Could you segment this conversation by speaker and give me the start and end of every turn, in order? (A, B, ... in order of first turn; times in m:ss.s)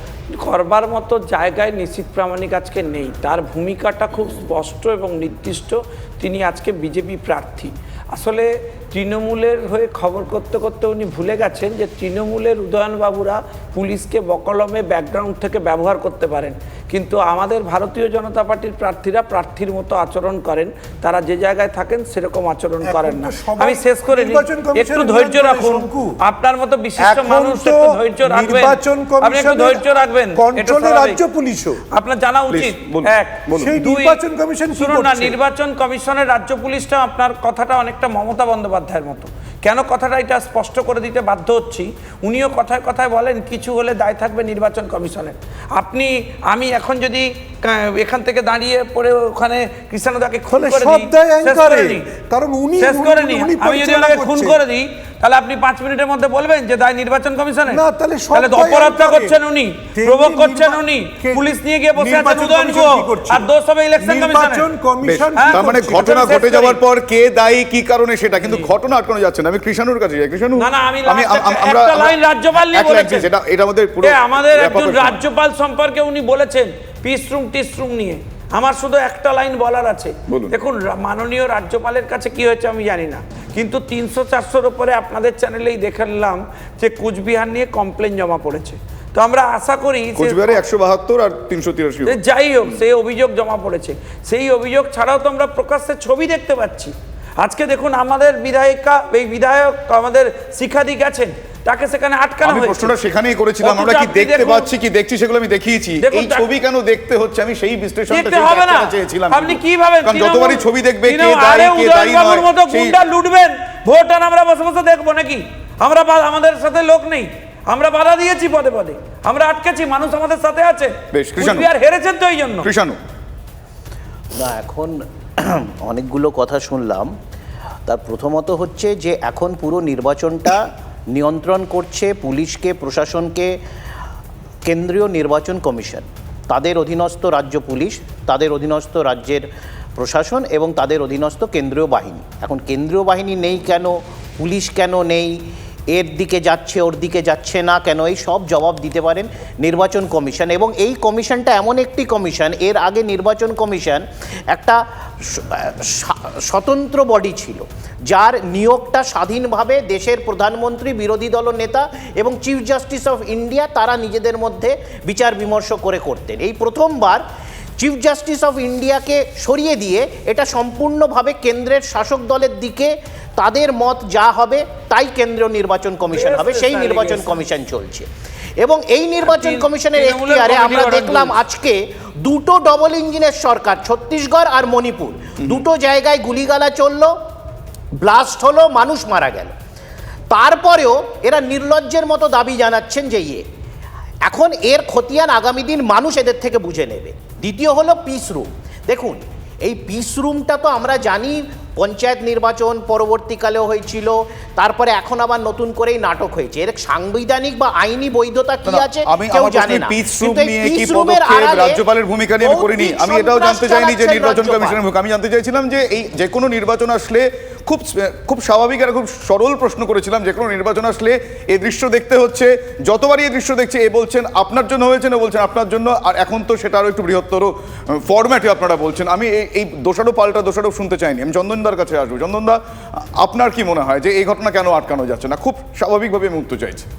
0:00.3-0:31.2 A
0:22.8-0:26.2 B
0:27.0-0:31.8 B
0:31.9-0:34.2 A
0:32.5-0:33.7 C
0:33.5-0:35.4 B
0:34.8-0:52.1 A
0:50.5-0:54.6 B
0:52.8-0:57.8 A
0:57.7-0:59.4 B
0:58.3-1:04.6 A
1:00.0-1:06.2 B
1:05.0-1:15.2 C
1:05.4-1:06.8 A
1:08.4-1:08.7 A
1:10.6-1:13.3 A
1:14.0-1:30.6 A
1:20.3-1:20.6 C
1:30.2-1:32.2 C
1:32.1-1:43.0 A
1:42.4-1:53.0 C
1:43.6-1:44.7 A
1:46.0-1:46.4 A
1:48.1-2:02.7 A
2:01.1-2:01.7 C
2:02.6-2:03.0 C
2:04.4-2:07.1 D
2:07.9-2:13.6 D
2:14.6-2:25.4 D
2:25.9-2:47.2 D
2:47.8-2:58.1 D
2:56.1-2:57.4 A
2:58.6-3:07.1 D
2:59.2-3:01.4 A
3:08.0-3:09.5 D
3:10.3-3:13.4 D
3:14.2-3:31.8 D
3:28.7-3:47.5 C
3:32.4-3:34.8 D
3:48.0-3:52.6 C
3:53.2-3:56.9 C